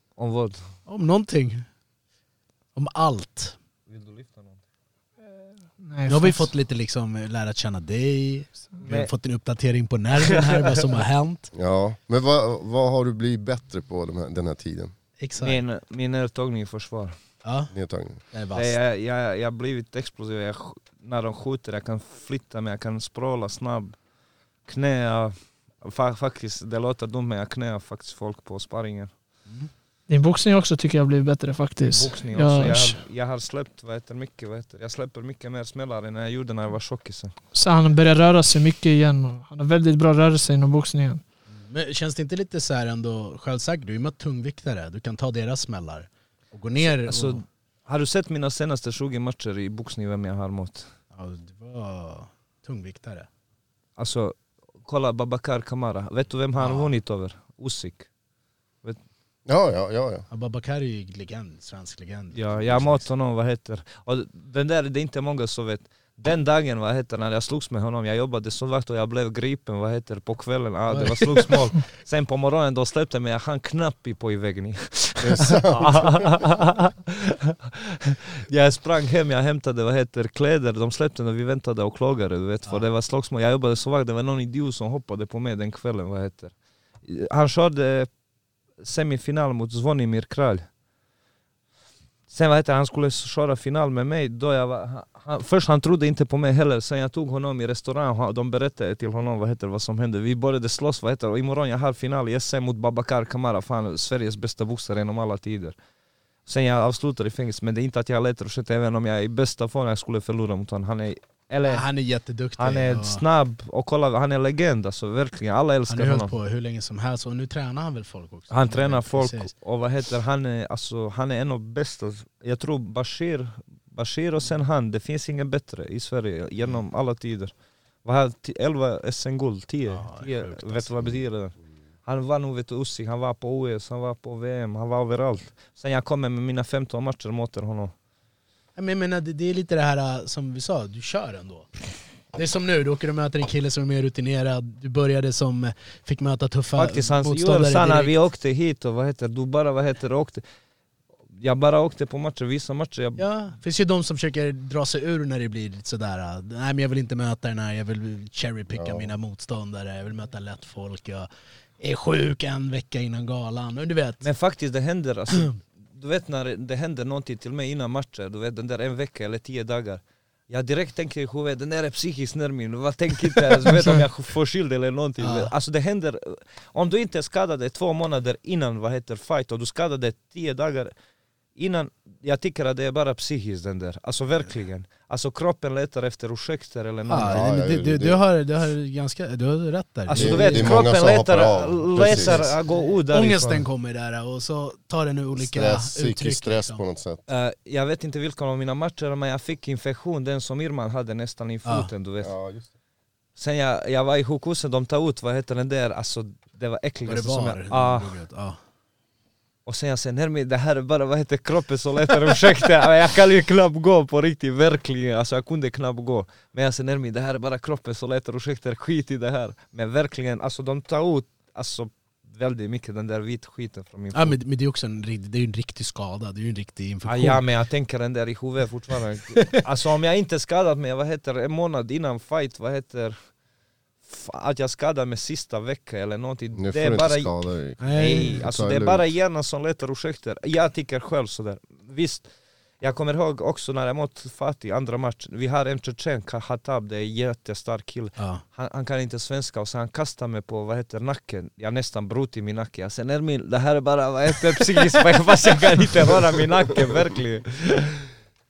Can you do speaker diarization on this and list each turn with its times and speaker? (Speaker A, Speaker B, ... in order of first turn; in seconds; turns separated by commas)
Speaker A: 0.2-0.7, Speaker B: 0.9-1.7, Speaker B: 2.7-3.5, Speaker A: 3.9-4.6, Speaker C: 5.8-6.5, Speaker B: 6.1-11.5, Speaker A: 8.8-9.1, Speaker A: 10.2-10.7, Speaker D: 11.5-14.9, Speaker B: 15.2-15.6, Speaker A: 15.4-17.1, Speaker B: 17.4-17.7, Speaker D: 17.7-18.2, Speaker B: 18.3-18.8, Speaker A: 18.5-24.0, Speaker A: 24.6-29.1, Speaker C: 30.1-33.0, Speaker A: 31.8-37.3, Speaker C: 37.5-41.2, Speaker B: 41.5-47.4, Speaker A: 46.8-50.9, Speaker B: 51.1-53.3, Speaker A: 54.0-58.1, Speaker B: 56.6-56.9, Speaker D: 59.5-60.2, Speaker B: 60.3-63.1, Speaker A: 62.3-88.1, Speaker B: 70.9-71.5, Speaker D: 75.2-76.3, Speaker A: 88.8-90.6, Speaker A: 92.3-105.8, Speaker A: 106.5-111.8, Speaker B: 111.7-113.2, Speaker A: 112.6-116.3, Speaker B: 115.9-119.5, Speaker A: 118.5-127.5, Speaker A: 128.0-137.9, Speaker B: 129.9-131.2, Speaker B: 138.8-141.7, Speaker B: 142.3-148.1, Speaker A: 146.8-150.4, Speaker A: 151.3-153.2, Speaker B: 153.2-161.3, Speaker D: 158.7-159.1, Speaker B: 161.8-164.2, Speaker A: 164.2-180.9, Speaker B: 175.2-175.5, Speaker A: 181.6-187.4, Speaker B: 187.1-190.9, Speaker D: 187.3-188.2, Speaker A: 190.1-193.7, Speaker D: 190.1-192.5, Speaker B: 191.9-196.8, Speaker D: 195.3-197.2, Speaker A: 197.3-202.3, Speaker B: 201.7-201.9, Speaker D: 202.2-202.7, Speaker A: 203.3-208.1, Speaker B: 207.1-208.6, Speaker A: 209.7-224.4, Speaker B: 224.1-227.4, Speaker A: 227.0-233.2, Speaker A: 234.0-242.3, Speaker D: 236.6-239.1, Speaker B: 237.8-238.4, Speaker A: 242.8-258.1, Speaker B: 248.2-248.4